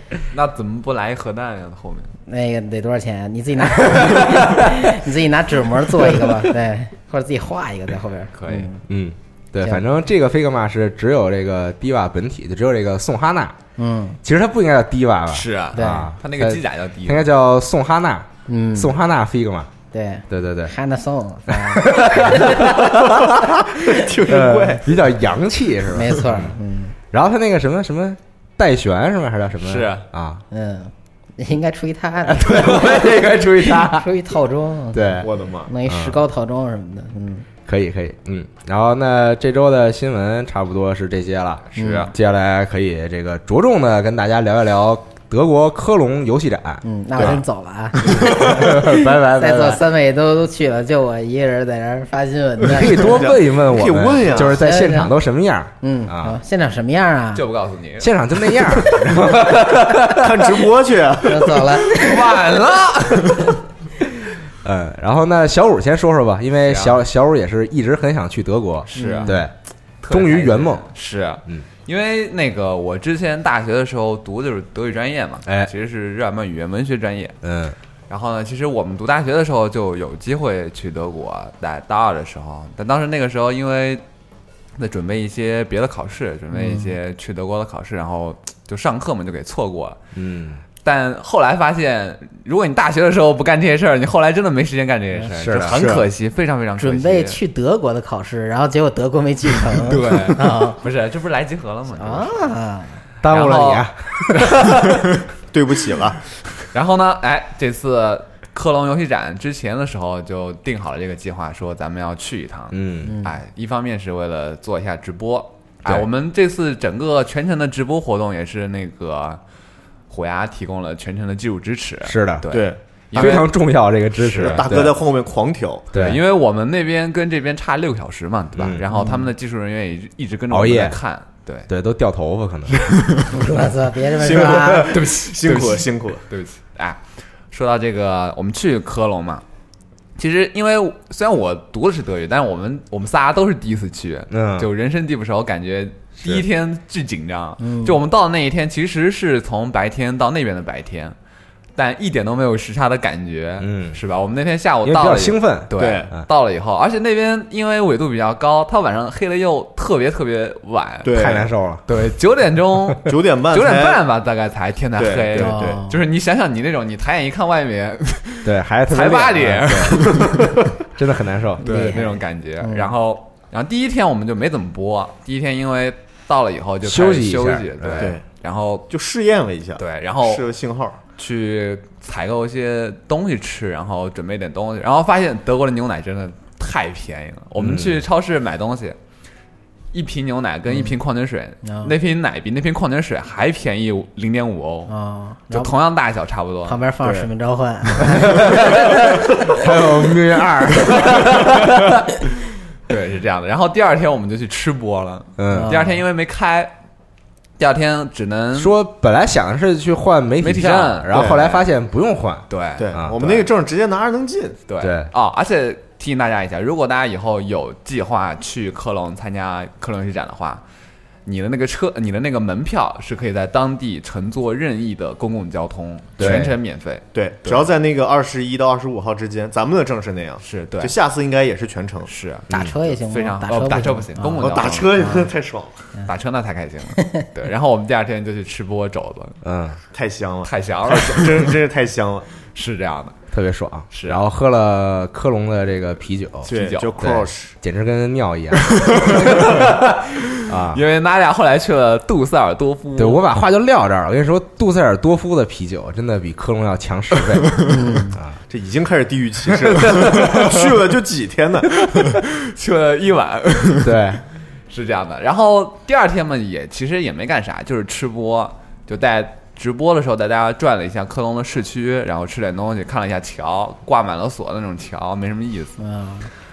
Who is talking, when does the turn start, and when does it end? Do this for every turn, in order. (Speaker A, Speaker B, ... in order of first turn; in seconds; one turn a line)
Speaker A: 0.3-2.1
Speaker B: 2.3-8.8
Speaker A: 8.3-8.7
Speaker C: 8.9-13.6
Speaker B: 13.8-14.2
Speaker C: 14.2-19.7
Speaker A: 15.3-17.3
Speaker B: 15.7-16.1
Speaker B: 18.5-18.9
Speaker B: 19.9-22.9
Speaker C: 20.3-20.7
Speaker C: 21.5-26.6
Speaker D: 23.6-24.9
Speaker B: 25.9-26.9
Speaker C: 27.1-30.4
Speaker A: 29.6-30.1
Speaker B: 30.5-37.5
Speaker C: 32.3-34.1
Speaker C: 34.9-35.3
Speaker D: 35.2-35.7
Speaker C: 35.9-36.2
Speaker C: 37.6-47.4
Speaker A: 41.7-42.1
Speaker B: 41.8-42.1
Speaker B: 46.8-53.3
Speaker C: 48.0-49.8
Speaker C: 52.6-56.4
Speaker D: 52.9-54.6
Speaker B: 54.4-55.1
Speaker B: 55.8-57.4
Speaker A: 57.4-60.1
Speaker C: 58.0-60.4
Speaker D: 60.1-61.6
Speaker B: 61.2-62.4
Speaker A: 61.8-63.6
Speaker C: 64.6-69.5
Speaker A: 66.7-67.0
Speaker A: 68.9-69.4
Speaker B: 68.9-69.4
Speaker A: 70.0-77.4
Speaker C: 70.1-70.9
Speaker C: 77.4-77.8
Speaker A: 78.1-84.0
Speaker A: 84.8-90.0
Speaker B: 86.5-86.9
Speaker C: 90.1-90.6
Speaker A: 90.8-97.4
Speaker C: 95.3-95.8
Speaker D: 95.7-96.1
Speaker B: 96.8-100.8
Speaker A: 99.7-102.5
Speaker B: 102.0-103.0
Speaker C: 103.2-105.0
Speaker A: 103.3-104.9
Speaker D: 105.5-106.4
Speaker A: 106.7-119.4
Speaker C: 112.7-113.2
Speaker B: 113.0-113.3
Speaker A: 120.1-123.5
Speaker C: 122.0-122.5
Speaker D: 122.5-123.3
Speaker C: 123.1-125.0
Speaker A: 124.2-124.7
Speaker D: 124.4-125.9
Speaker C: 125.9-126.2
Speaker A: 125.9-131.7
Speaker C: 128.6-128.8
Speaker B: 128.9-129.3
Speaker C: 130.5-131.0
Speaker C: 131.7-132.9
Speaker A: 132.7-133.4
Speaker B: 133.3-134.9
Speaker D: 134.2-136.2
Speaker A: 134.9-139.4
Speaker A: 140.2-151.1
Speaker C: 144.3-144.7
Speaker B: 147.6-148.0
Speaker A: 151.8-161.4
Speaker C: 153.6-154.0
Speaker C: 154.8-156.2
Speaker D: 155.8-156.1
Speaker D: 161.0-161.5
Speaker C: 161.1-161.8
Speaker A: 161.9-170.5
Speaker D: 163.1-164.0
Speaker D: 165.0-165.8
Speaker B: 165.4-165.9
Speaker C: 168.4-171.6
Speaker D: 170.0-170.5
Speaker B: 171.6-172.9
Speaker A: 171.6-178.9
Speaker C: 176.8-178.1
Speaker D: 178.0-178.2
Speaker D: 178.9-181.0
Speaker A: 179.8-180.5
Speaker A: 181.2-189.0
Speaker C: 187.6-188.0
Speaker A: 189.9-194.9
Speaker B: 191.6-191.9
Speaker B: 194.9-195.7
Speaker A: 195.5-196.8
Speaker B: 196.6-199.6
Speaker C: 198.2-201.8
Speaker A: 200.9-201.9
Speaker A: 202.9-206.7
Speaker C: 205.4-205.7
Speaker B: 205.5-206.0
Speaker A: 207.6-208.7
Speaker C: 208.5-213.2
Speaker A: 210.4-211.7
Speaker D: 211.1-211.4
Speaker A: 212.5-213.5
Speaker D: 212.8-214.6
Speaker A: 214.7-220.6
Speaker C: 214.8-215.1
Speaker A: 221.3-227.7
Speaker C: 226.2-226.6
Speaker D: 227.1-232.1
Speaker A: 230.4-230.9
Speaker A: 232.1-235.3
Speaker C: 232.5-232.8
Speaker B: 232.5-235.3
Speaker D: 234.4-235.7
Speaker A: 236.1-239.4
Speaker B: 237.0-237.3
Speaker C: 239.4-239.8
Speaker D: 239.9-242.3
Speaker A: 240.4-241.6
Speaker A: 242.5-243.1
Speaker C: 243.3-249.7
Speaker A: 243.9-244.2
Speaker A: 246.4-247.2
Speaker D: 246.4-247.6
Speaker A: 248.6-253.2
Speaker C: 250.4-250.8
Speaker C: 253.0-257.6
Speaker B: 257.6-258.2
Speaker C: 258.1-258.4
Speaker D: 258.5-262.1
Speaker A: 259.6-260.8
Speaker A: 261.8-264.1
Speaker C: 263.8-264.2
Speaker A: 264.7-275.8
Speaker B: 275.8-276.3